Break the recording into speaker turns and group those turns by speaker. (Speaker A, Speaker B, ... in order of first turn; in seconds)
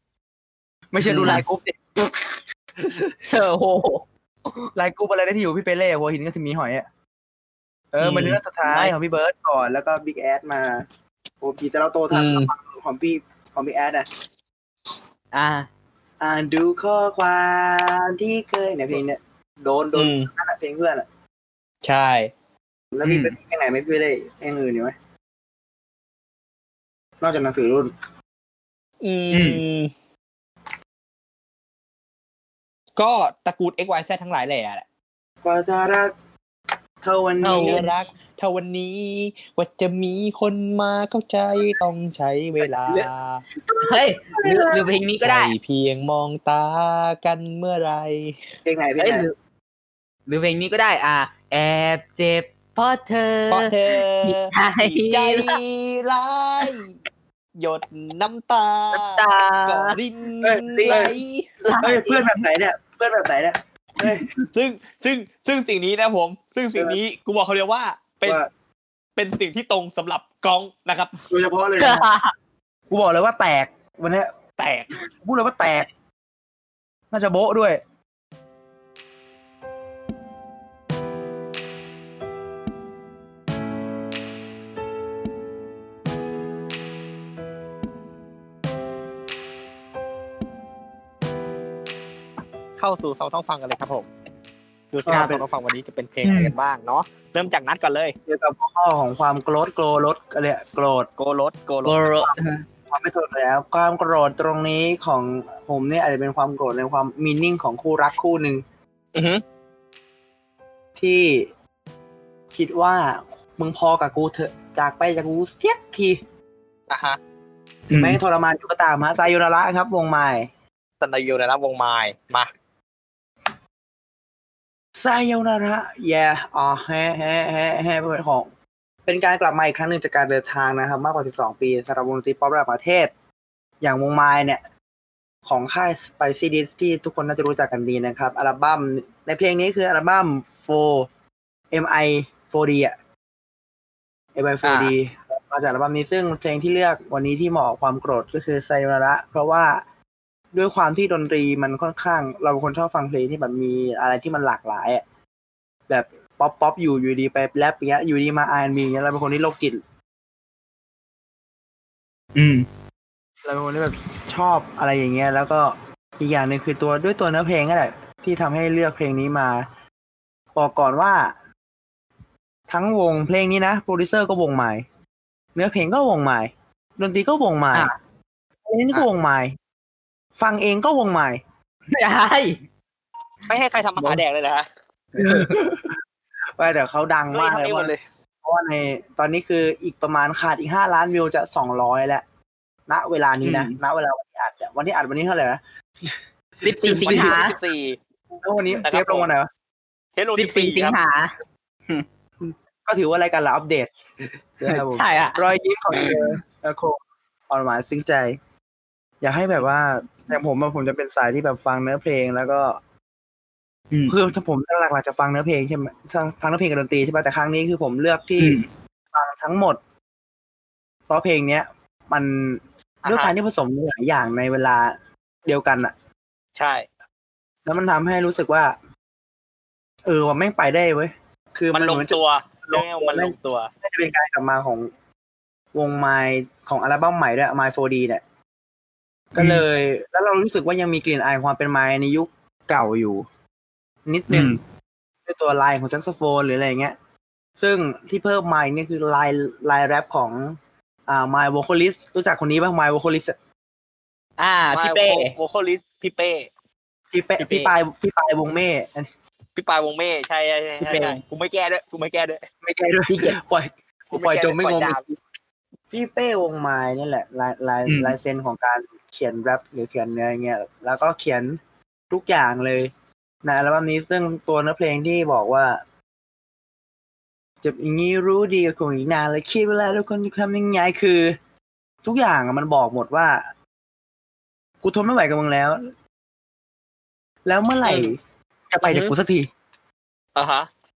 Speaker A: 0.9-3.1, 4.8-6.9, 7.9-10.9, 11.4-14.1, 16.2-21.1, 22.9-24.9, 27.2-27.9, 35.4-36.1, 37.0-37.9, 44.3-44.8, 48.6-49.2, 60.4-61.2, 61.8-64.3, 68.2-68.5, 71.3-72.1, 72.9-74.3, 75.2-75.9, 77.1-77.8, 95.1-95.4, 98.3-101.1, 102.9-108.6, 111.0-111.5, 112.5-116.2, 117.9-120.5, 125.0-128.5, 129.1-133.1, 133.8-134.6, 135.4-141.1, 141.7-142.9, 144.3-149.8, 150.5-155.0, 155.9-159.8, 163.4-169.7, 170.5-171.3, 172.7-174.8, 175.5-177.9, 178.6-179.6, 180.4-181.4, 185.2-186.0, 186.6-192.2, 192.9-197.4, 198.4-199.5, 202.4-203.9, 204.6-208.4, 209.2-212.8, 214.1-218.6, 219.1-219.8, 221.1-225.9, 227.7-228.7, 230.1-234.9, 235.7-238.2, 239.3-243.2, 244.1-244.6, 245.2-246.9, 247.6-253.3, 257.1-259.1, 262.6-265.2, 265.9-271.6, 272.1-272.9, 273.4-275.8, 277.6-281.4, 282.0-283.5, 284.8-285.9, 287.4-288.2, 288.7-289.5
Speaker B: 1.1-1.4, 3.3-4.7, 8.0-8.4, 15.3-15.7, 23.0-23.3, 29.3-29.6, 37.4-37.9, 43.8-45.5, 49.0-49.3, 50.3-55.6, 58.9-60.0, 61.6-62.4, 71.8-72.3, 96.2-96.5, 101.8-102.6, 117.9-118.2, 144.6-144.9, 162.3-162.7, 181.9-182.6, 185.2-185.5, 193.4-193.8, 196.6-197.5, 200.3-201.3, 204.7-206.4, 218.4-218.7, 239.4-239.6, 244.3-244.6, 254.4-255.3, 257.4-257.7, 260.8-261.2, 263.1-263.4, 267.9-268.1
Speaker C: 12.1-12.5, 19.9-20.3, 21.8-22.3, 29.0-29.9, 33.0-34.8, 37.5-43.4, 45.2-48.4, 53.5-56.9, 57.6-61.5, 64.5-68.4, 69.2-71.2, 74.6-74.9, 92.8-94.1, 94.9-98.1, 101.2-102.0, 109.1-109.4, 116.9-117.2, 121.0-122.5, 183.5-184.7, 187.3-188.0, 197.0-198.0, 198.8-199.3, 200.2-200.9, 223.0-223.3, 226.6-226.8, 231.7-233.7, 254.7-256.5, 259.6-262.4, 264.1-265.0, 287.8-288.1, 288.8-289.1, 290.4-290.7